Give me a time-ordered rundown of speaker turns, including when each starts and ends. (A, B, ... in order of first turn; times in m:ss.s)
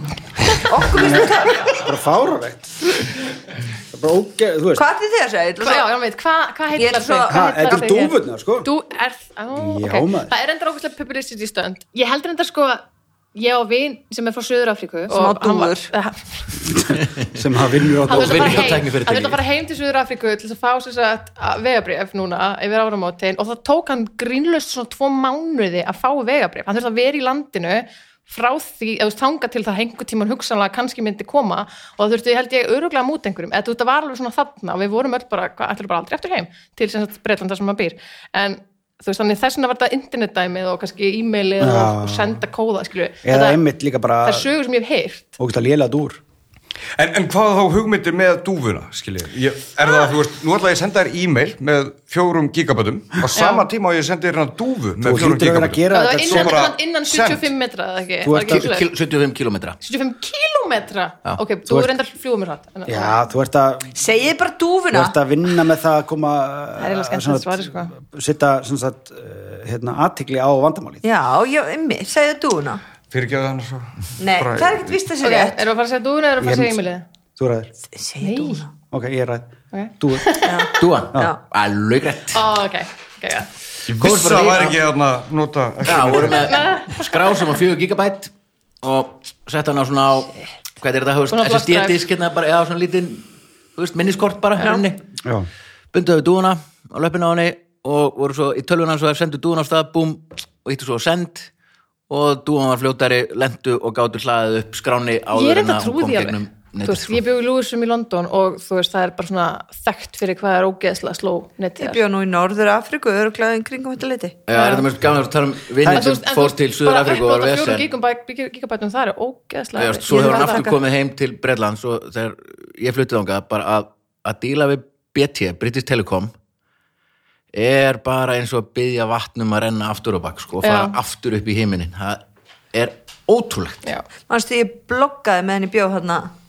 0:00.5-0:01.8 A
0:00.9-0:02.9 B
0:03.9-0:04.8 B
0:04.8-0:05.9 A
0:05.6-0:12.8 C
0:06.8-0:08.0 A
0:07.3-0:08.7 B
0:09.6-0:10.3 B
0:13.3-0:16.5 C
0:15.1-0:15.9 A
0:16.7-0:18.8 B
0:18.1-0:19.4 D
0:18.1-0:43.6 C
0:41.6-0:42.4 B
0:43.2-0:44.5 B
0:44.2-0:45.4 C
0:45.4-0:46.2 B
0:47.0-0:57.5 E
0:53.4-0:53.7 C
0:55.0-0:56.6 B
0:55.9-0:58.9 C
0:58.2-0:58.7 B
0:58.4-0:59.8 D
0:59.8-1:03.2 C
1:01.7-1:01.9 B
1:02.9-1:04.0 B
1:03.9-1:05.2 A
1:04.9-1:11.0 B
1:06.8-1:07.9 C
1:11.0-1:12.8 A
1:13.1-1:15.0 E
1:14.2-1:15.6 A
1:15.2-1:17.0 C
1:16.4-1:16.8 B
1:17.4-1:17.7 B
1:17.9-1:18.7 A
1:18.2-1:18.6 C
1:18.9-1:20.3 B
1:19.7-1:20.7 C
1:20.4-1:21.4 A
1:20.8-1:22.5 D
1:22.3-1:23.5 C
1:23.9-1:26.6 E
1:24.0-1:24.8 D
1:25.9-1:35.0 D
1:26.5-1:27.4 C
1:31.3-1:32.0 C
1:35.2-1:35.5 B
1:35.9-1:41.5 D
1:42.1-1:47.2 D
1:45.3-1:52.0 C
1:51.8-1:54.4 A
1:54.5-1:57.9 D
1:54.5-1:54.9 C
1:55.8-2:00.8 C
1:59.8-2:06.3 D
2:07.5-2:12.2 D
2:10.6-2:11.0 C
2:12.7-2:13.8 D
2:14.3-2:16.3 A